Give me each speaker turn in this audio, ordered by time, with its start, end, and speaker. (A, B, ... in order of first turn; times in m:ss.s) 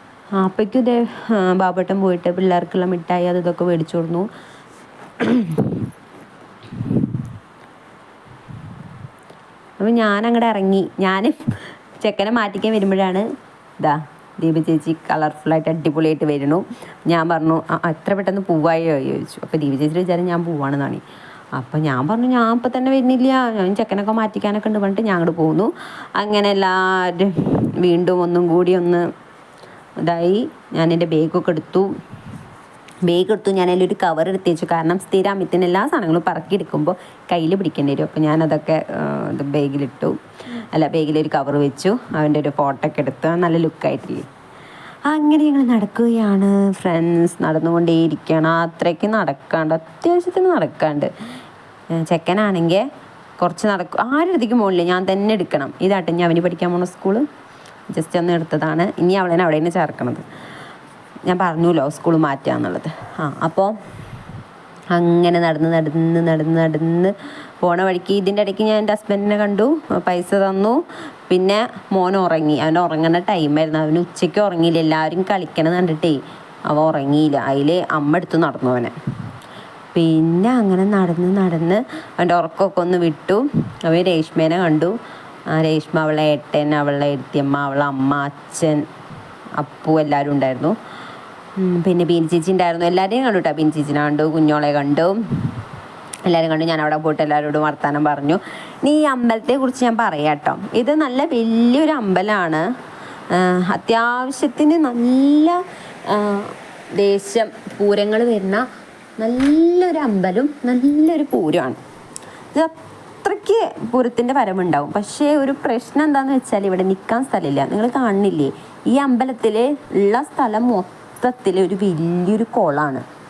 0:00.4-0:04.3 A
0:05.2-0:05.8 A
0:09.8-0:13.3 A
0:13.8-0:21.0 A
0:21.6-0:29.1 A
0:30.0-0:31.9 A
0:33.1-0:40.2 A
0:40.7-0:44.3 A
0:45.1-0:51.1 A
0:51.9-0:52.8 A
0:53.4-0:57.2 A
0:57.9-1:00.2 A
1:01.3-1:03.8 A
1:04.9-1:19.0 A
1:19.9-1:24.9 A
1:25.5-1:28.8 A
1:29.6-1:30.8 A
1:31.6-1:35.6 A
1:36.3-1:42.6 A
1:43.3-1:48.6 A
1:49.2-1:51.8 A
1:52.5-2:03.0 A